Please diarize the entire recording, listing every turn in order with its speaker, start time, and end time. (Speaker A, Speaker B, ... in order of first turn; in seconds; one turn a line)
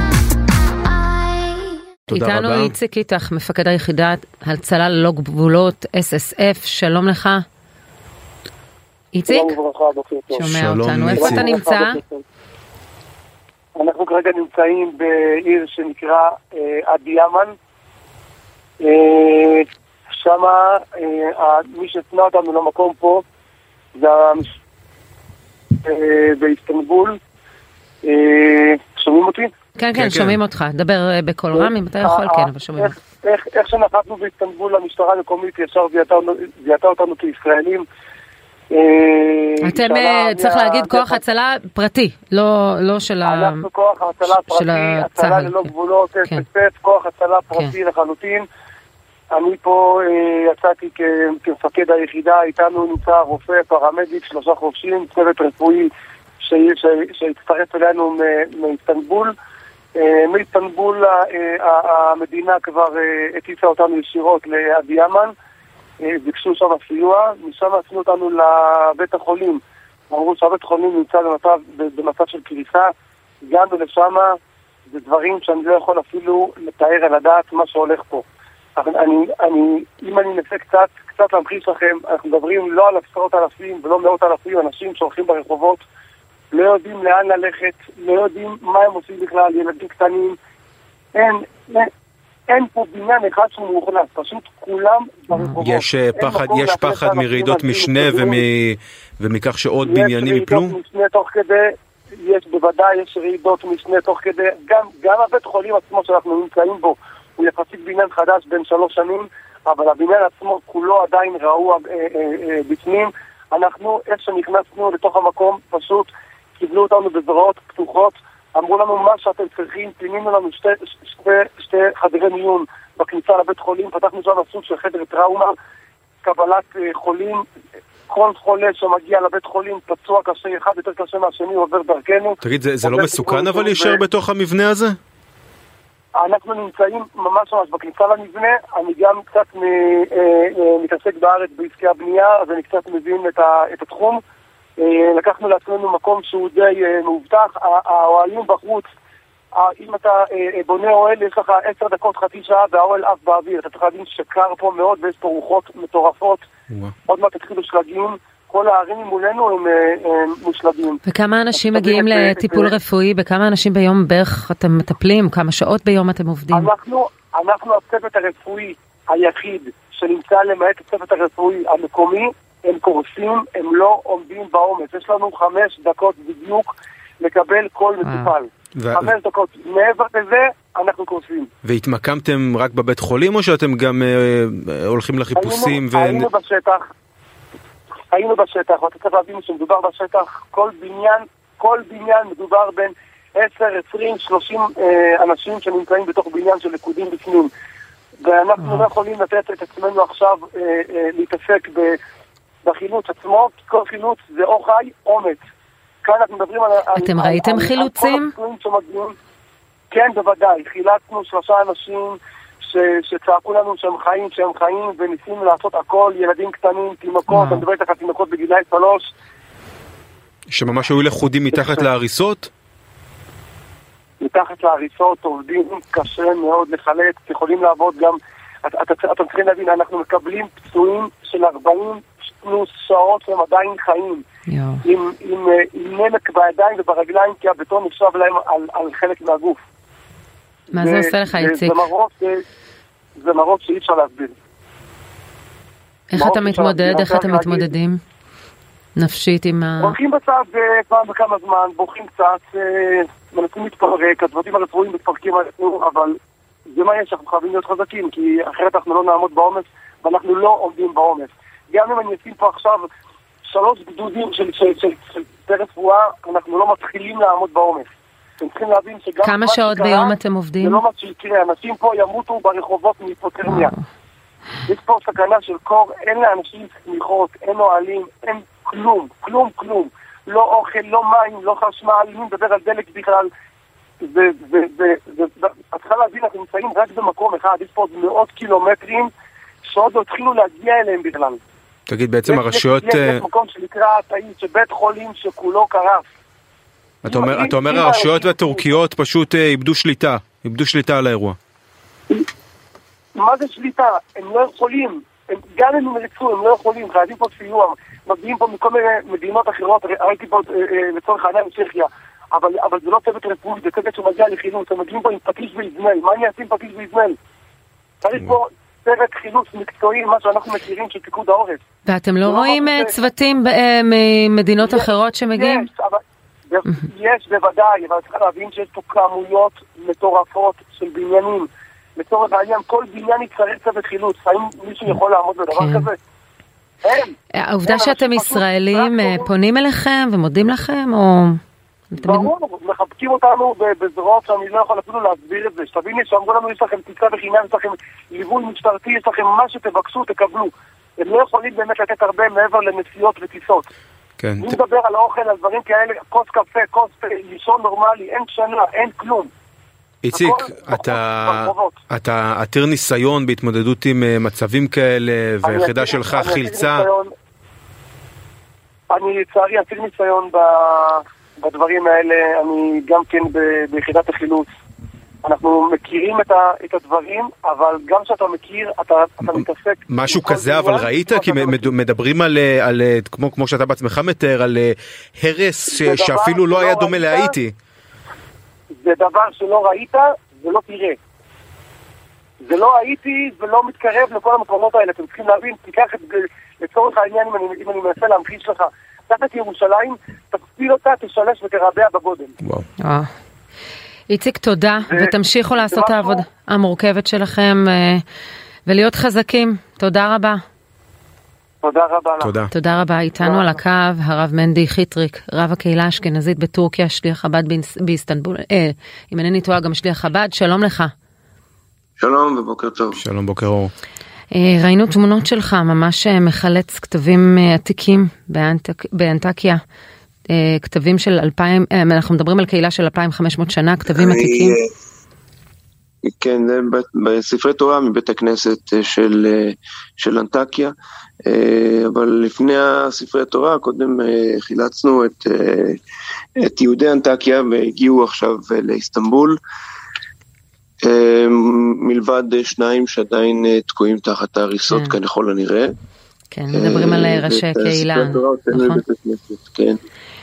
Speaker A: 1.0-7.4
Speaker B: 2.1-2.8
Speaker A: 9.1-9.5
Speaker C: 9.3-10.5
Speaker A: 10.3-11.9
Speaker B: 10.4-11.5
Speaker C: 11.2-12.2
Speaker C: 13.8-17.6
Speaker C: 18.8-19.7
Speaker C: 20.2-23.2
Speaker C: 23.9-24.6
Speaker C: 25.8-27.2
Speaker C: 28.0-29.5
Speaker A: 29.8-32.9
Speaker B: 29.9-30.4
Speaker C: 31.5-37.9
Speaker C: 38.7-41.2
Speaker A: 39.6-43.7
Speaker C: 43.2-48.5
Speaker A: 44.2-45.7
Speaker C: 49.3-55.9
Speaker C: 56.4-59.3
Speaker C: 60.0-65.3
Speaker C: 66.0-72.9
Speaker C: 73.4-74.4
Speaker C: 74.9-85.8
Speaker C: 86.5-90.4
Speaker C: 91.1-91.9
Speaker C: 92.5-98.5
Speaker A: 95.3-95.6
Speaker B: 95.6-100.8
Speaker C: 99.8-125.5
Speaker C: 126.2-127.4
Speaker C: 128.1-134.0
Speaker B: 132.4-135.0
Speaker C: 136.2-144.2
Speaker C: 144.8-148.9
Speaker C: 149.5-156.4
Speaker C: 157.1-161.0
Speaker A: 161.1-166.7
Speaker C: 161.5-162.8
Speaker C: 166.5-181.5
Speaker A: 178.0-178.3
Speaker B: 178.8-179.1
Speaker B: 181.6-186.3
Speaker C: 185.4-186.8
Speaker C: 188.1-197.5
Speaker C: 198.2-202.0
Speaker A: 198.6-198.9
Speaker C: 202.6-205.4
Speaker C: 206.0-209.2
Speaker A: 206.9-208.3
Speaker C: 209.9-219.1
Speaker A: 217.3-217.7
Speaker B: 220.5-222.5
Speaker C: 221.5-221.9
Speaker C: 224.2-234.2
Speaker A: 234.5-234.8
Speaker C: 234.8-239.6
Speaker A: 240.7-241.8
Speaker C: 240.8-242.4
Speaker C: 243.2-244.3
Speaker A: 246.1-248.0
Speaker C: 246.2-247.7
Speaker A: 249.0-250.0
Speaker C: 249.8-256.2
Speaker C: 256.7-262.9
Speaker C: 263.5-267.9
Speaker C: 268.4-273.7
Speaker A: 269.2-270.8
Speaker A: 273.5-273.8
Speaker C: 274.7-283.3
Speaker C: 284.0-289.1
Speaker C: 289.6-291.4
Speaker B: 291.9-293.2
Speaker C: 292.3-296.1
Speaker B: 297.0-301.4
Speaker C: 297.1-298.7
Speaker C: 303.1-317.2
Speaker C: 318.0-321.6
Speaker A: 321.9-325.7
Speaker C: 322.2-322.9
Speaker C: 324.6-336.0
Speaker A: 335.5-335.9
Speaker C: 336.8-337.1
Speaker A: 337.4-341.4
Speaker C: 337.7-339.3
Speaker A: 341.9-342.3
Speaker C: 342.0-353.7
Speaker B: 354.2-354.6
Speaker C: 354.4-359.3
Speaker B: 360.0-366.9
Speaker C: 360.1-361.8
Speaker C: 365.4-367.1
Speaker C: 368.9-374.5
Speaker C: 375.2-381.7
Speaker B: 379.3-387.5
Speaker C: 385.7-387.4
Speaker C: 388.8-391.0
Speaker C: 392.4-402.3
Speaker B: 402.4-402.7
Speaker A: 402.8-403.1
Speaker A: 404.1-408.0
Speaker C: 404.9-406.2
Speaker A: 408.7-410.4
Speaker C: 411.6-412.3
Speaker B: 412.2-412.5
Speaker A: 412.5-420.9
Speaker C: 413.2-413.6
Speaker D: 422.0-423.0
Speaker B: 423.0-423.7
Speaker A: 424.3-429.6
Speaker A: 430.3-434.6
Speaker D: 433.9-434.7
Speaker D: 436.1-440.7
Speaker D: 441.3-445.8
Speaker D: 446.4-449.4
Speaker D: 450.8-455.7
Speaker A: 454.7-455.0
Speaker A: 456.3-458.8
Speaker D: 456.5-459.8